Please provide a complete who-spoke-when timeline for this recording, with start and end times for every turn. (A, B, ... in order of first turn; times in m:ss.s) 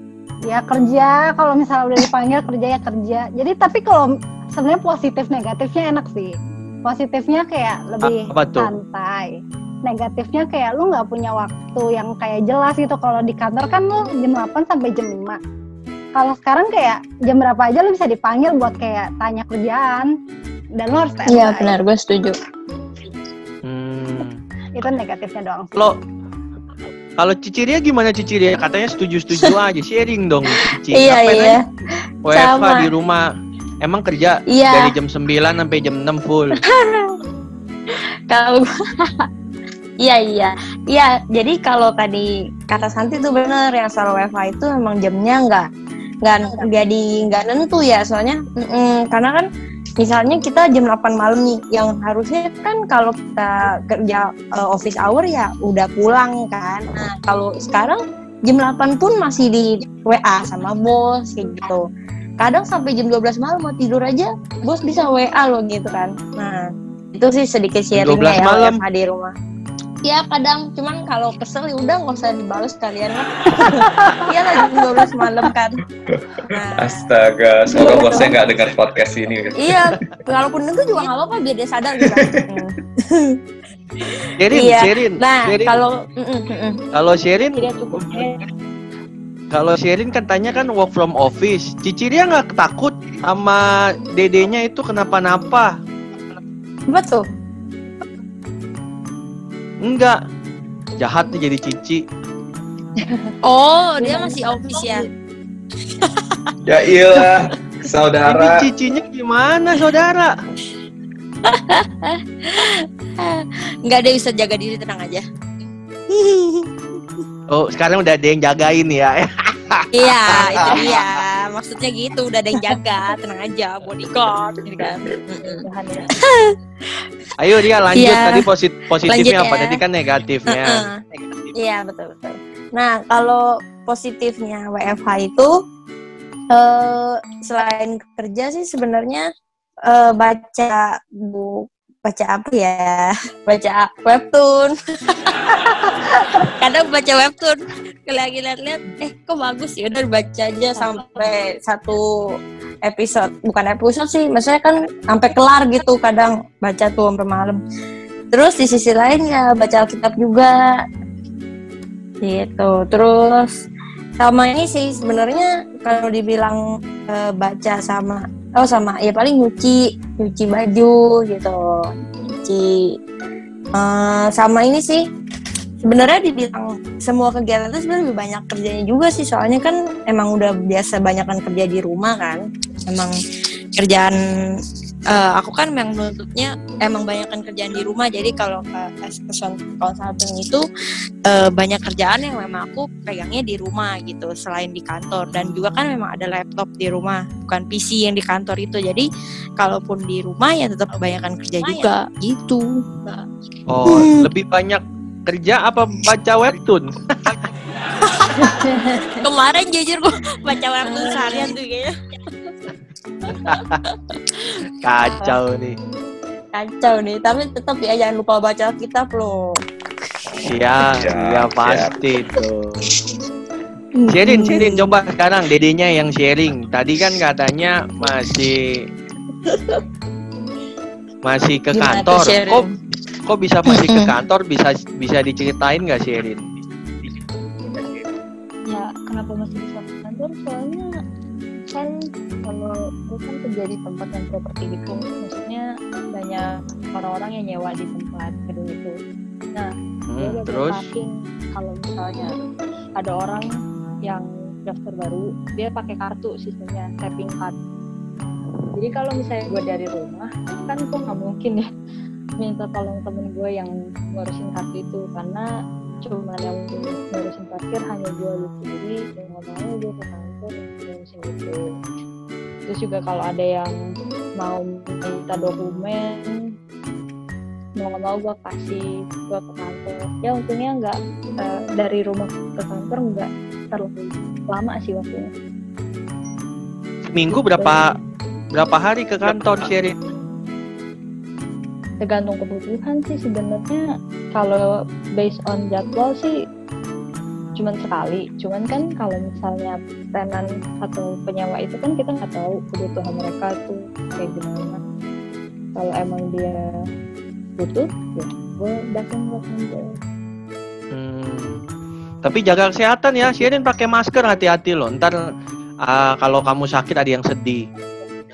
0:00.5-0:06.3 A
0:06.8-0:15.4 A
0:08.0-0:08.7 B
0:16.2-0:20.1 A
0:20.8-0:21.8 A
0:21.3-0:22.4 C
0:23.6-0:24.4 B
0:24.8-0:25.8 A
0:27.2-0:31.6 B
0:30.9-0:31.6 C
0:32.3-0:33.2 B
0:32.3-0:32.9 C
0:33.8-0:36.6 B
0:34.5-0:35.0 C
0:36.6-0:37.2 C
0:37.9-0:39.3 C
0:40.0-0:45.7 C
0:46.2-0:49.5 C
0:50.0-1:01.8 C
1:02.4-1:09.3 C
1:07.9-1:08.8 B
1:10.0-1:15.8 C
1:16.2-1:19.8 D
1:16.4-1:17.0 C
1:17.7-1:18.4 C
1:19.6-1:23.4 C
1:24.1-1:26.8 C
1:24.4-1:25.8 B
1:26.9-1:28.3 B
1:27.6-1:28.4 E
1:29.5-1:35.7 B
1:36.9-1:37.3 C
1:39.8-1:40.2 B
1:41.0-1:42.0 B
1:43.0-1:43.3 E
1:43.4-1:45.1 C
1:44.0-1:45.1 E
1:46.0-1:46.5 C
1:46.6-1:48.6 D
1:48.3-1:50.3 B
1:51.4-1:55.2 C
1:56.1-1:56.7 C
1:57.5-2:01.0 B
1:59.9-2:07.1 C
2:05.4-2:06.1 E
2:07.4-2:10.8 B
2:07.8-2:08.5 C
2:09.0-2:09.8 C
2:10.5-2:11.0 C
2:11.6-2:15.5 C
2:16.5-2:19.3 C
2:19.9-2:25.6 C
2:26.2-2:32.0 C
2:30.8-2:31.2 E
2:32.8-2:37.6 C
2:38.3-2:40.5 C
2:42.2-2:43.5 C
2:44.2-2:52.7 C
2:53.8-2:55.0 C
2:55.8-3:03.1 C
3:03.8-3:04.2 C
3:05.1-3:10.6 C
3:11.3-3:19.1 C
3:19.6-3:23.2 C
3:23.7-3:27.4 B
3:23.9-3:24.3 C
3:28.0-3:31.9 C
3:28.4-3:29.1 E
3:33.3-3:33.8 B
3:33.5-3:35.4 C
3:34.8-3:35.8 B
3:36.5-3:39.6 C
3:40.4-3:42.9 B
3:40.9-3:41.9 D
3:44.0-3:44.9 C
3:44.1-3:48.8 B
3:51.2-3:52.6 B
3:51.7-3:52.7 C
3:53.2-3:56.5 B
3:53.7-3:54.2 C
3:58.7-4:00.9 E
4:01.7-4:05.6 E
4:06.1-4:08.9 E
4:09.6-4:12.3 E
4:10.1-4:10.8 B
4:13.0-4:13.5 E
4:14.1-4:17.6 E
4:18.2-4:21.7 E
4:22.4-4:25.5 E
4:26.0-4:31.6 E
4:32.7-4:33.8 E
4:34.4-4:36.3 E
4:37.8-4:45.3 E
4:47.1-4:48.0 B
4:47.3-4:48.0 E
4:48.5-4:50.0 B
4:52.0-4:53.8 E
4:54.4-4:54.6 E
4:55.2-4:56.3 E
4:57.6-5:04.8 E
5:05.8-5:06.6 E
5:07.6-5:10.0 E
5:10.9-5:11.6 B
5:12.2-5:15.2 B
5:15.8-5:17.7 B